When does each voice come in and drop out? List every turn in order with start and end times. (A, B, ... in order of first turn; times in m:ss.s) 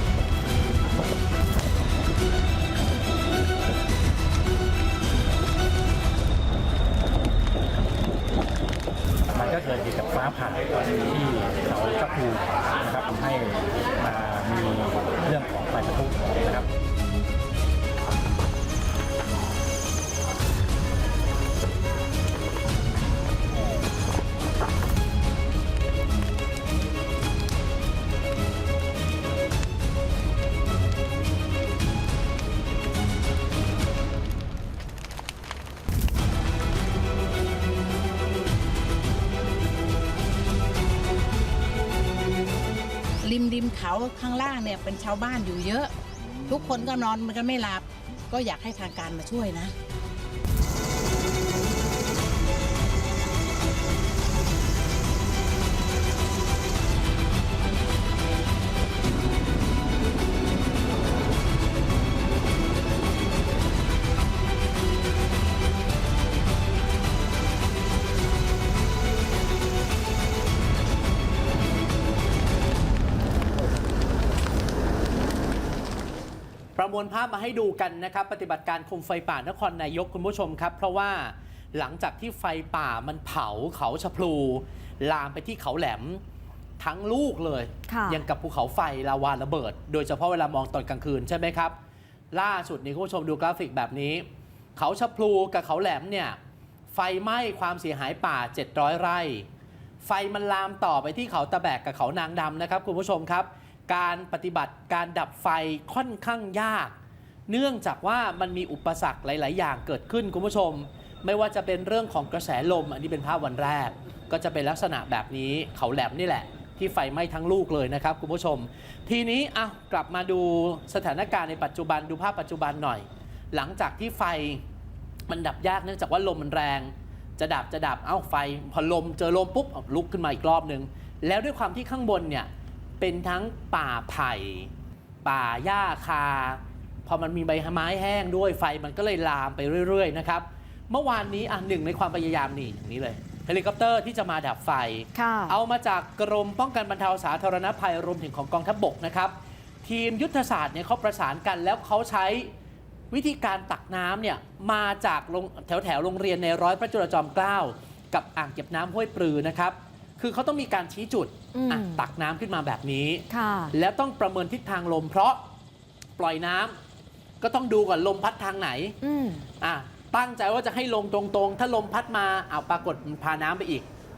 0:09.3-0:16.7 A
0:43.2-0:45.9 B
0:46.4-0:49.7 B
1:16.8-1:26.2 C
1:26.8-1:31.8 C
1:27.9-1:28.2 D
1:32.3-1:36.4 C
1:36.9-1:39.4 C
1:40.0-1:46.9 C
1:47.5-2:04.6 C
2:05.3-2:12.5 C
2:13.0-2:14.7 C
2:15.2-2:32.5 C
2:25.1-2:25.6 D
2:33.1-2:45.4 C
2:41.5-2:42.0 D
2:43.3-2:43.7 D
2:46.2-2:46.8 C
2:47.4-2:49.0 C
2:49.0-2:49.5 D
2:49.6-2:53.9 C